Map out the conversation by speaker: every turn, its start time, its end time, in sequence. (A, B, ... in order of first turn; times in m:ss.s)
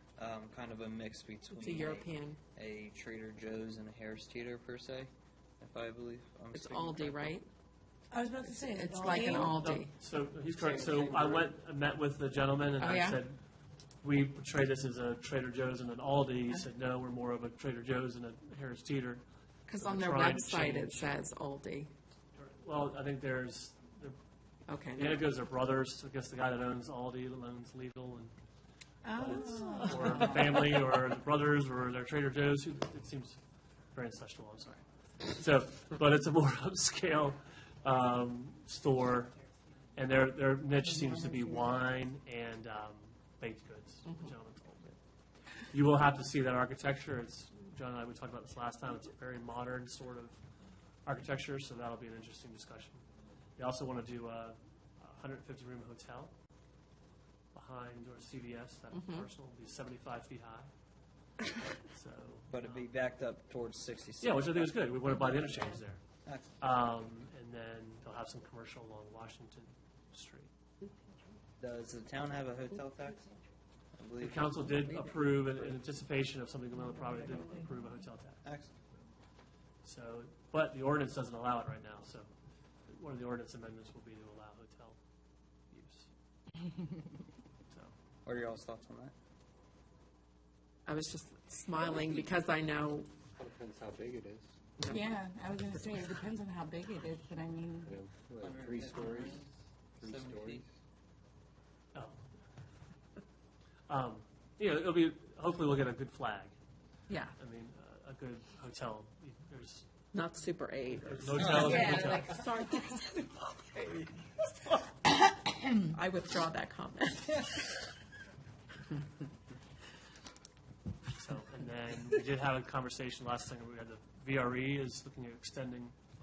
0:00.2-0:07.3 A
0:01.5-0:02.4 B
0:06.5-0:07.5 B
0:08.1-0:09.6 C
0:08.4-0:09.9 B
0:09.3-0:13.4 D
0:10.5-0:11.5 E
0:12.8-0:13.2 B
0:14.0-0:19.2 D
0:19.7-0:21.9 B
0:19.8-0:21.0 D
0:22.3-0:24.2 D
0:24.7-0:25.2 B
0:25.0-0:28.4 D
0:29.0-0:30.2 C
0:29.1-0:33.4 D
0:29.4-0:30.4 B
0:33.9-0:39.4 D
0:40.0-0:45.0 D
0:41.0-0:41.5 C
0:45.7-0:50.4 D
0:51.0-0:53.0 D
0:53.6-0:56.3 D
0:57.5-1:00.7 D
0:58.9-0:59.3 B
1:01.8-1:02.9 D
1:02.5-1:04.7 A
1:04.2-1:06.0 D
1:06.2-1:06.6 A
1:06.6-1:10.5 D
1:11.6-1:13.3 A
1:14.0-1:14.9 A
1:14.2-1:18.4 D
1:18.4-1:18.7 A
1:19.8-1:22.3 D
1:22.9-1:25.0 D
1:25.7-1:26.1 D
1:28.2-1:29.1 A
1:30.8-1:33.1 B
1:33.3-1:34.5 E
1:34.8-1:35.2 B
1:34.9-1:37.9 C
1:37.8-1:39.4 E
1:38.4-1:40.6 A
1:40.0-1:40.7 E
1:41.9-1:42.2 D
1:43.9-1:46.6 D
1:47.1-1:47.3 B
1:47.4-1:49.9 D
1:50.1-1:53.8 B
1:51.0-1:52.4 D
1:51.4-1:51.7 A
1:51.6-1:52.1 C
1:55.9-1:57.6 B
2:01.2-2:06.0 D